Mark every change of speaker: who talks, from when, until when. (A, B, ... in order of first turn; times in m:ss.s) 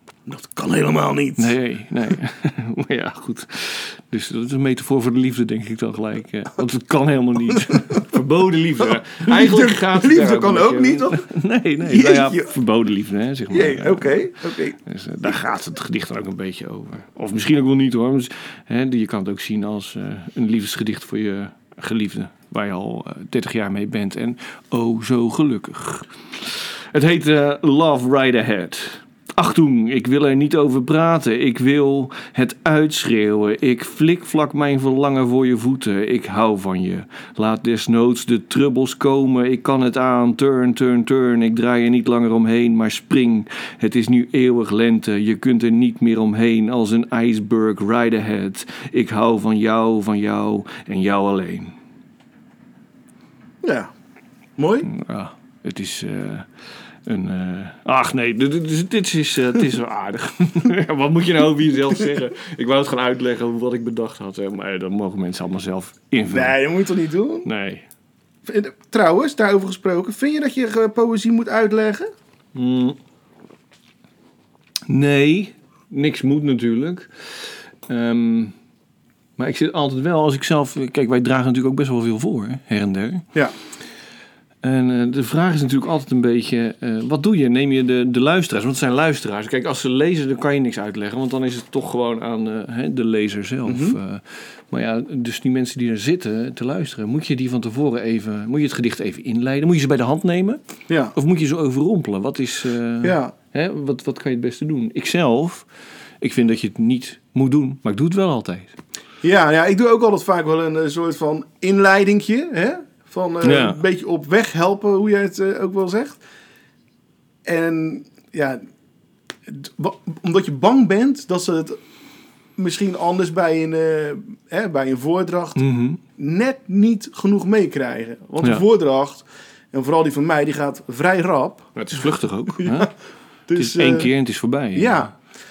0:00.3-0:01.6 A
0:01.4-0:51.8 B
0:07.7-0:08.0 A
0:09.2-0:11.3 A
0:11.8-0:12.5 A
0:13.5-0:15.3 A
0:53.6-0:53.9 A
0:54.6-0:54.9 A
0:54.8-0:56.5 B
0:57.1-1:06.6 B
1:06.3-1:07.5 A
1:07.4-1:07.9 B
1:08.4-1:12.1 A
1:12.6-1:13.0 B
1:14.9-1:18.6 B
1:19.4-1:23.3 B
1:24.6-1:40.6 B
1:33.7-1:34.0 A
1:40.9-1:41.2 A
1:41.1-1:45.7 B
1:43.0-1:43.3 A
1:46.2-1:48.8 B
1:49.2-1:56.2 A
1:53.4-1:53.8 B
1:57.4-1:58.6 A
1:59.5-2:01.8 A
2:02.6-2:05.6 A
2:05.6-2:06.0 B
2:06.2-2:11.8 A
2:11.8-2:12.9 B
2:12.6-2:12.9 A
2:13.5-2:14.1 A
2:13.5-2:15.1 B
2:14.8-2:15.1 A